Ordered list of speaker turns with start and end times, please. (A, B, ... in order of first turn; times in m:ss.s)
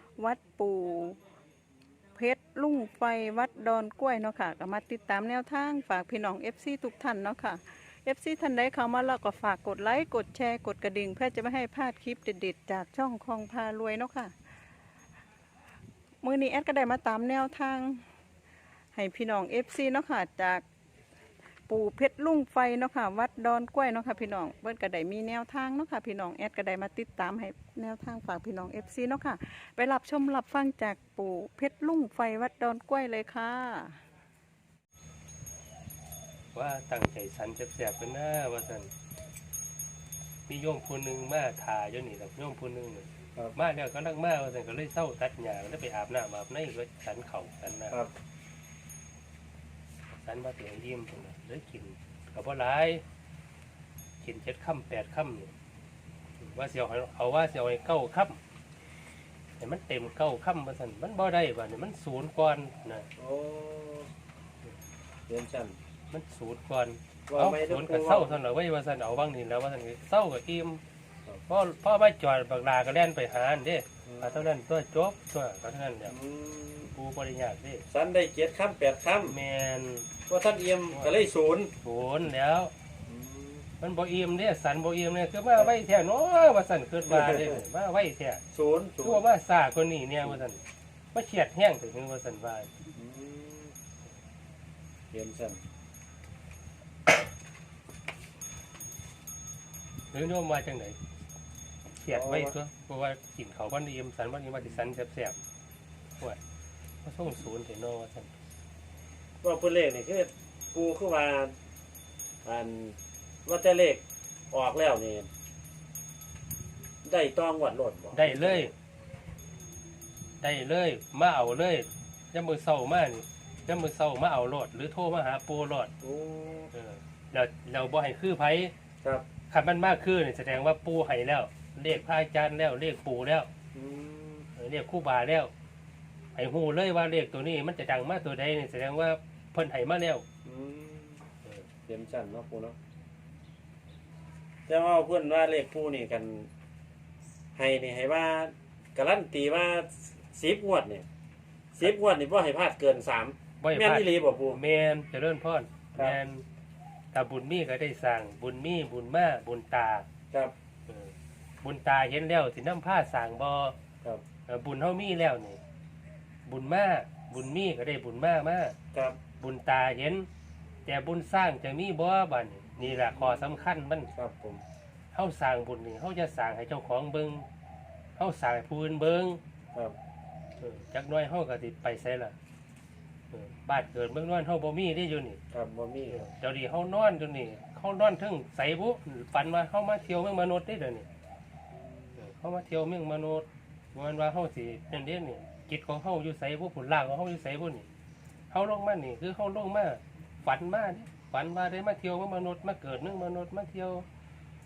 0:00.2-0:01.2 A
0:02.2-0:14.3 A
0:16.2-0:18.0 A
0:18.9-0:20.6 A
0:21.7-0:34.0 A
0:36.5-0:38.9 B
0:40.5-0:48.0 B
0:50.2-0:53.0 B
0:54.2-0:55.5 B
0:56.4-0:58.4 B
0:59.6-1:03.1 B
1:03.2-1:04.1 C
1:05.3-1:05.8 C
1:06.1-1:10.8 B
1:07.3-1:08.4 C
1:11.5-1:16.2 B
1:14.1-1:14.4 C
1:16.1-1:17.0 C
1:16.9-1:17.8 B
1:17.9-1:19.4 C
1:19.2-1:20.1 B
1:20.3-1:21.7 C
1:20.9-1:21.2 B
1:21.8-1:22.7 B
1:23.1-1:23.7 C
1:23.8-1:28.4 B
1:27.1-1:27.6 C
1:28.5-1:29.2 C
1:29.0-1:30.6 B
1:31.1-1:32.7 B
1:32.9-1:33.7 C
1:35.1-1:35.6 C
1:40.1-1:41.0 B
1:42.0-1:45.4 B
1:42.1-1:42.5 C
1:47.0-1:48.3 B
1:49.4-1:51.5 C
1:52.4-1:55.3 C
1:57.0-1:58.7 C
1:58.1-1:58.7 B
2:00.4-2:05.9 B
2:06.0-2:06.7 C
2:06.7-2:08.7 B
2:09.5-2:13.5 B
2:13.7-2:14.5 C
2:14.6-2:15.5 B
2:16.4-2:20.2 B
2:20.4-2:21.2 C
2:21.9-2:22.8 C
2:24.7-2:26.5 C
2:27.6-2:31.1 C
2:31.8-2:34.6 C
2:33.6-2:36.4 B
2:37.1-2:40.1 B
2:40.9-2:43.8 B
2:44.5-2:45.6 B
2:46.5-2:48.8 B
2:48.9-2:49.2 C
2:49.4-2:50.3 B
2:50.9-2:54.1 B
2:52.8-2:53.5 C
2:54.1-2:54.6 C
2:55.1-2:57.4 B
2:58.2-2:59.4 B
3:00.6-3:02.4 B
3:03.3-3:05.4 B
3:05.5-3:06.3 C
3:06.1-3:11.1 B
3:11.7-3:12.2 C
3:12.2-3:17.9 B
3:18.5-3:24.1 B